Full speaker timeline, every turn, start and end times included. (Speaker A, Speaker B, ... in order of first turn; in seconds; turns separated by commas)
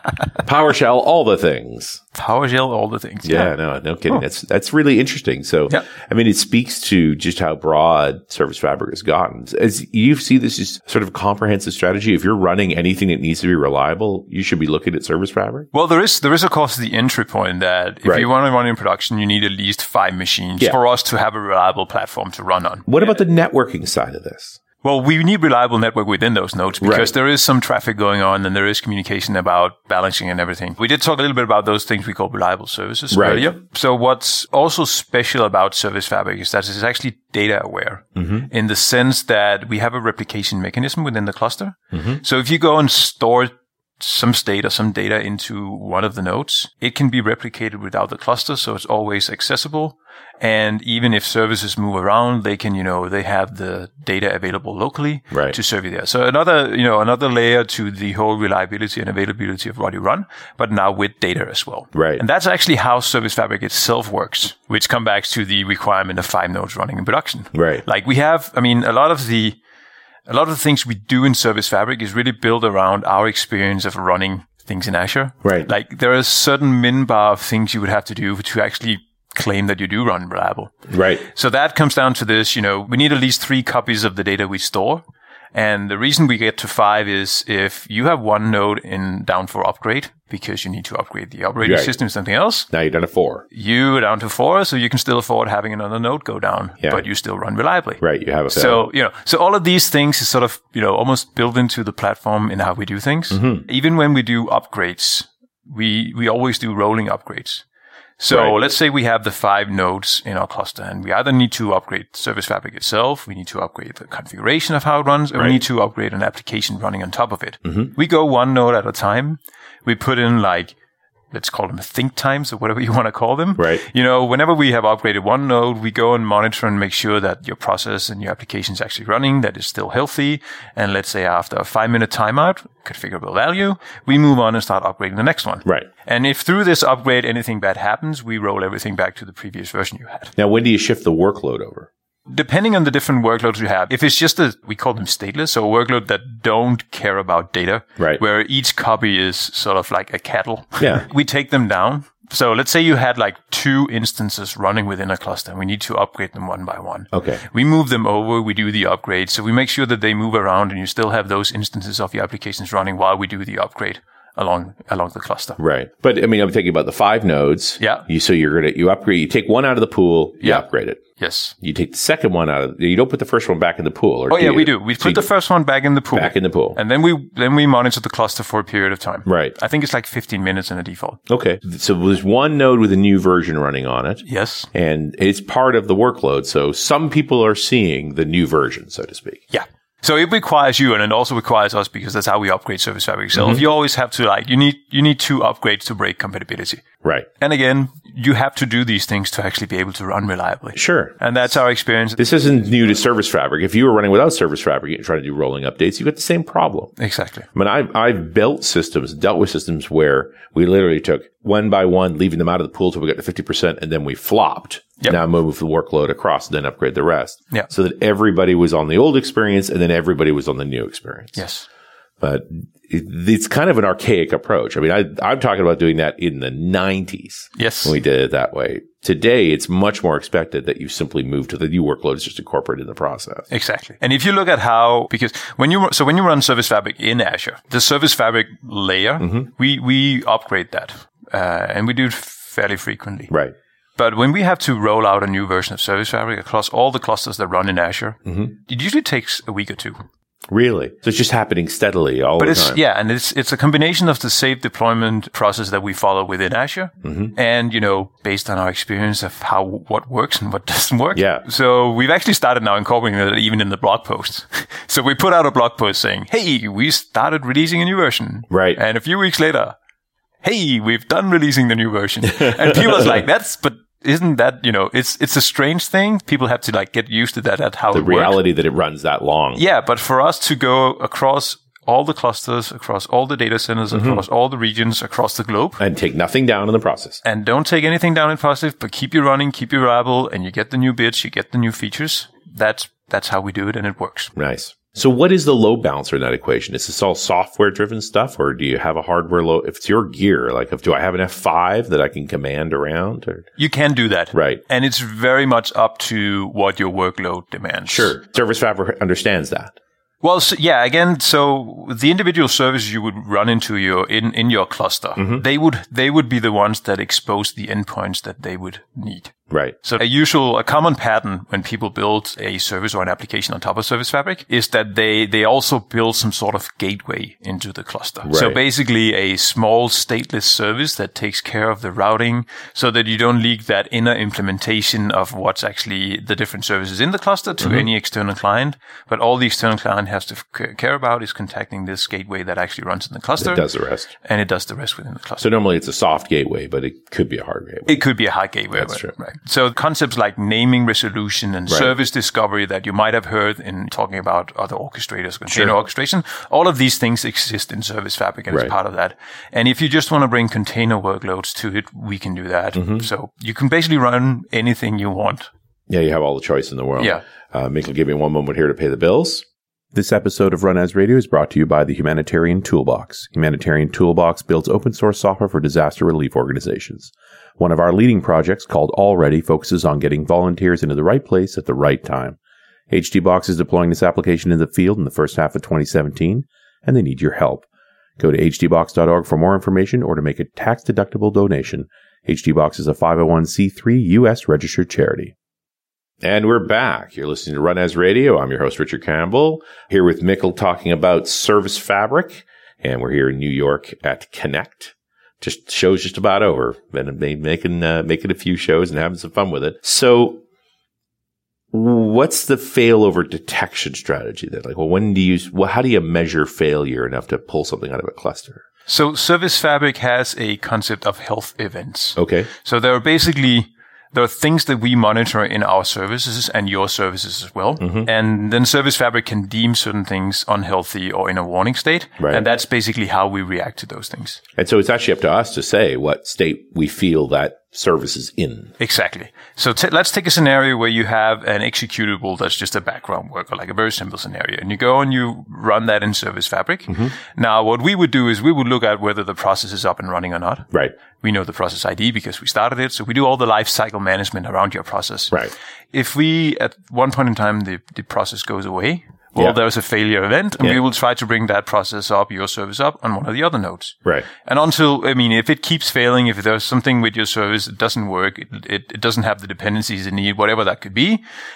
Speaker A: 0.4-2.0, Speaker B: 2.1-3.5, Speaker A: 3.2-15.7, Speaker B: 15.7-22.9, Speaker A: 22.9-24.6, Speaker B: 24.8-69.6, Speaker A: 26.8-27.1, Speaker A: 33.1-33.5, Speaker A: 38.1-38.5, Speaker A: 41.9-42.2, Speaker A: 55.3-55.6, Speaker A: 61.9-62.2, Speaker A: 67.5-67.8, Speaker B: 70.3-85.0, Speaker A: 75.4-75.7, Speaker A: 80.9-81.2, Speaker B: 85.5-92.7, Speaker A: 91.6-91.9, Speaker A: 92.7-93.4, Speaker B: 93.5-107.6, Speaker A: 98.0-98.8, Speaker A: 103.3-103.6, Speaker B: 108.2-120.7, Speaker A: 108.3-108.5, Speaker A: 117.6-117.9, Speaker B: 121.3-140.3, Speaker A: 123.6-123.8, Speaker A: 140.4-141.9, Speaker B: 142.3-165.6, Speaker A: 150.8-151.0, Speaker A: 157.1-157.4, Speaker A: 165.6-171.0, Speaker B: 167.8-168.1, Speaker B: 170.4-170.7, Speaker B: 171.2-171.5, Speaker A: 171.6-175.3, Speaker B: 174.3-181.2, Speaker A: 176.1-176.8, Speaker A: 179.2-179.5, Speaker A: 181.3-189.4, Speaker B: 184.2-184.7, Speaker B: 189.5-196.8, Speaker A: 193.3-193.6, Speaker B: 197.4-202.2, Speaker A: 200.7-201.1, Speaker A: 202.2-206.9, Speaker B: 207.0-207.5, Speaker A: 207.5-221.4, Speaker B: 221.3-221.7, Speaker A: 222.2-233.5, Speaker B: 227.6-227.9, Speaker B: 233.5-243.3, Speaker A: 239.2-239.5, Speaker B: 244.0-250.0, Speaker A: 248.2-248.5, Speaker A: 250.5-252.8, Speaker B: 252.4-269.8, Speaker A: 257.0-257.3, Speaker A: 261.1-261.4, Speaker A: 268.5-268.8, Speaker B: 270.4-278.4, Speaker A: 272.4-273.0, Speaker A: 277.9-279.6, Speaker B: 279.6-285.8, Speaker A: 283.9-284.2, Speaker A: 285.8-287.2, Speaker B: 287.2-294.3, Speaker A: 294.3-303.5, Speaker B: 303.6-308.1, Speaker A: 304.3-304.6, Speaker A: 307.9-309.7, Speaker B: 310.2-343.6, Speaker A: 315.2-315.4, Speaker A: 319.5-319.8, Speaker A: 328.2-328.6, Speaker A: 337.6-337.9, Speaker A: 343.4-344.1, Speaker B: 344.2-345.4, Speaker A: 345.4-348.0, Speaker B: 347.9-365.5, Speaker A: 348.7-349.1, Speaker A: 355.5-355.7, Speaker A: 362.7-363.1, Speaker A: 365.9-382.4, Speaker A: 382.9-387.6, Speaker A: 388.2-395.3, Speaker A: 396.2-410.4, Speaker A: 411.7-418.6, Speaker B: 418.9-434.4, Speaker A: 422.2-422.5, Speaker A: 427.8-428.1, Speaker A: 432.2-432.4, Speaker A: 434.6-438.7, Speaker B: 438.8-455.4, Speaker B: 455.9-471.2